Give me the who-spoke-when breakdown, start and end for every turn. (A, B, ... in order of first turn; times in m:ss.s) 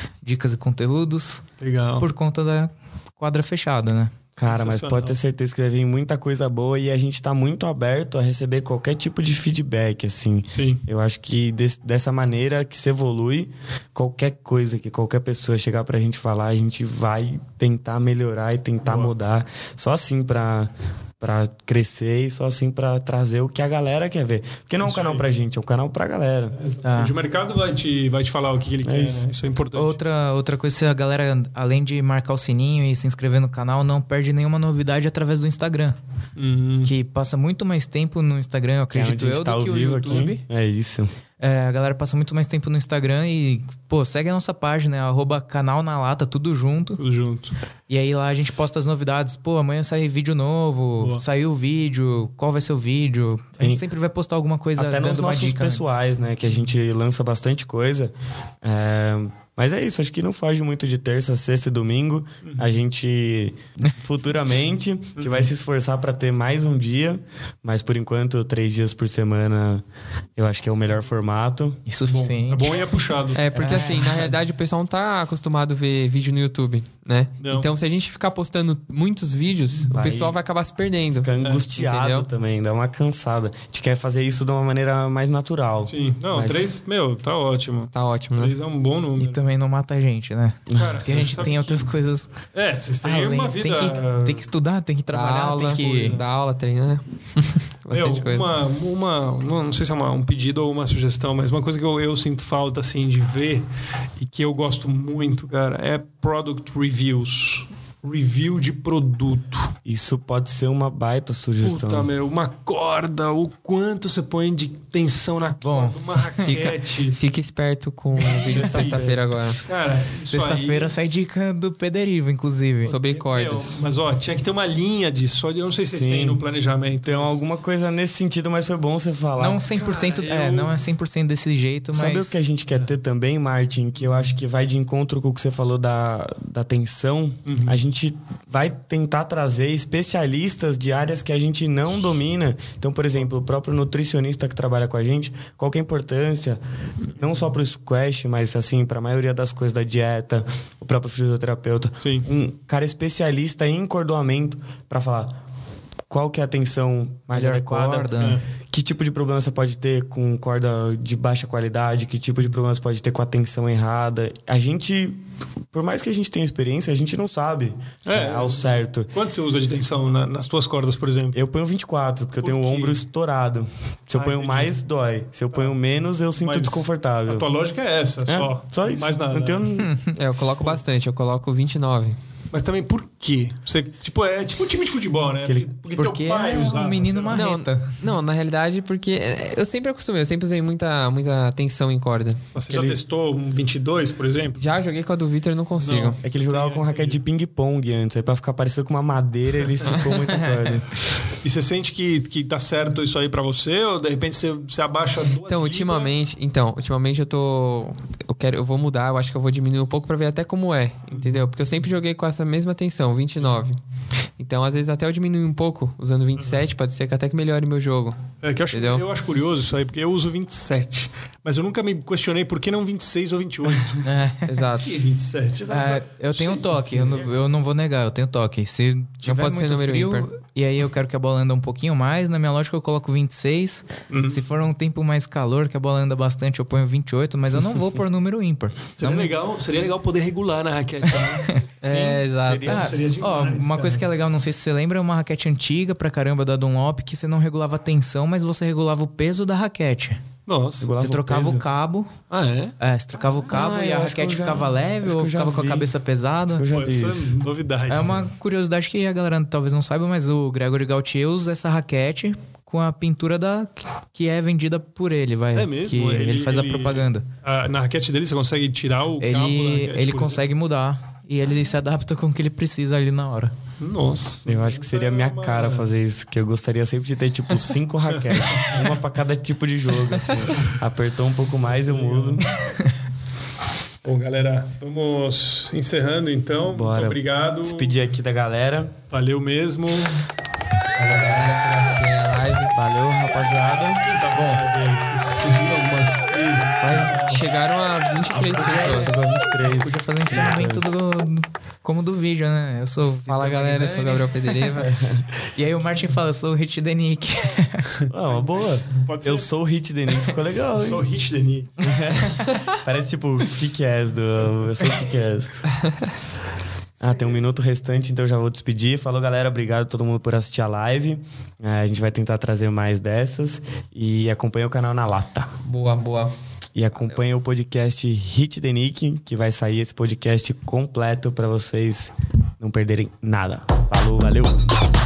0:00.2-0:01.4 A
0:01.6-0:02.1 B
0:02.0-0:04.1 A
0:04.4-0:26.6 C
0:04.4-0:05.2 B
0:10.5-0:10.8 B
0:18.8-0:19.1 B
0:24.8-0:25.2 B
0:26.5-0:30.0 B
0:26.8-0:27.1 A
0:28.8-0:29.3 C
0:29.7-0:36.0 A
0:36.4-0:36.9 B
0:36.8-0:40.4 A
0:38.9-0:41.1 C
0:41.4-0:47.0 A
0:47.0-0:47.5 B
0:47.9-0:55.9 A
0:51.0-0:51.2 B
0:53.6-0:53.8 C
0:54.8-1:09.8 C
1:02.4-1:02.8 B
1:05.2-1:05.5 B
1:10.4-1:11.8 C
1:11.9-1:12.9 A
1:12.0-1:13.4 B
1:13.3-1:22.3 D
1:13.5-1:14.3 C
1:13.6-1:14.1 A
1:17.4-1:17.7 B
1:19.9-1:20.4 C
1:21.2-1:26.7 C
1:21.4-1:21.6 B
1:25.8-1:29.4 B
1:27.9-1:28.5 D
1:29.2-1:32.3 A
1:30.7-1:31.2 C
1:30.7-1:31.9 B
1:32.5-1:34.5 B
1:33.0-1:36.2 A
1:35.1-1:38.5 D
1:35.6-1:36.3 B
1:37.9-1:43.7 B
1:44.2-1:49.7 B
1:49.8-1:52.1 C
1:51.6-1:57.2 B
1:55.6-1:56.5 A
1:56.4-1:59.6 D
1:58.2-1:59.1 B
1:58.4-1:59.2 C
1:59.6-2:00.9 B
2:00.3-2:02.9 A
2:02.8-2:07.4 B
2:02.8-2:03.8 D
2:05.9-2:06.4 C
2:07.0-2:09.6 C
2:09.4-2:12.4 A
2:09.8-2:10.7 B
2:11.9-2:26.6 C
2:17.4-2:17.8 B
2:27.1-2:27.4 B
2:27.2-2:35.4 C
2:32.0-2:32.2 B
2:36.1-2:38.2 C
2:37.3-2:38.4 A
2:38.2-2:38.4 B
2:38.7-2:45.2 C
2:45.7-2:49.1 C
2:48.0-2:51.4 B
2:51.3-2:57.4 C
2:52.4-2:53.0 B
2:54.1-2:54.7 B
2:56.3-2:59.7 B
2:58.3-2:59.9 C
2:59.8-3:00.1 A
3:00.1-3:02.2 D
3:02.5-3:07.4 B
3:05.4-3:05.7 C
3:06.0-3:08.0 A
3:07.3-3:12.4 D
3:12.5-3:14.6 B
3:12.7-3:13.0 C
3:14.6-3:16.2 D
3:15.8-3:17.2 B
3:16.2-3:20.9 C
3:19.8-3:20.2 D
3:20.3-3:20.7 A
3:21.4-3:26.3 B
3:25.5-3:33.8 D
3:31.1-3:31.4 B
3:34.4-3:38.2 D
3:38.4-3:44.0 B
3:38.7-3:39.0 D
3:44.0-3:44.6 A
3:44.4-3:44.9 D
3:44.8-3:47.3 B
3:45.6-3:46.0 C
3:45.7-3:59.3 A
3:49.2-3:50.3 D
3:54.1-3:54.5 B
3:58.9-4:04.0 B
4:01.2-4:01.6 A
4:01.8-4:02.7 D
4:02.4-4:03.0 C
4:02.6-4:10.2 A
4:10.4-4:10.9 B
4:10.8-4:11.6 C
4:11.0-4:12.1 A
4:12.3-4:12.8 B
4:12.8-4:16.7 A
4:13.5-4:15.9 C
4:16.5-4:17.4 C
4:16.7-4:18.3 B
4:17.9-4:27.3 A
4:25.5-4:30.5 B
4:29.2-4:33.5 A
4:33.8-4:35.9 B
4:34.4-4:42.5 C
4:38.1-4:38.9 B
4:40.1-4:40.4 D
4:41.5-4:42.4 B
4:44.0-4:47.9 B
4:46.7-4:48.9 C
4:49.1-4:50.2 B
4:50.9-4:51.6 B
4:51.0-4:52.8 D
4:52.7-4:54.0 C
4:54.0-4:57.4 B
4:54.3-4:54.6 A
4:56.8-4:57.1 C
4:56.9-4:59.2 D
4:58.3-5:01.0 C
4:58.4-5:04.9 A
5:03.3-5:04.9 D
5:04.8-5:05.3 C
5:05.6-5:08.0 A
5:08.1-5:11.0 C
5:08.2-5:09.5 B
5:10.7-5:11.7 B
5:11.8-5:15.5 C
5:17.0-5:17.4 B
5:17.0-5:25.5 C
5:25.6-5:26.3 D
5:26.7-5:34.7 C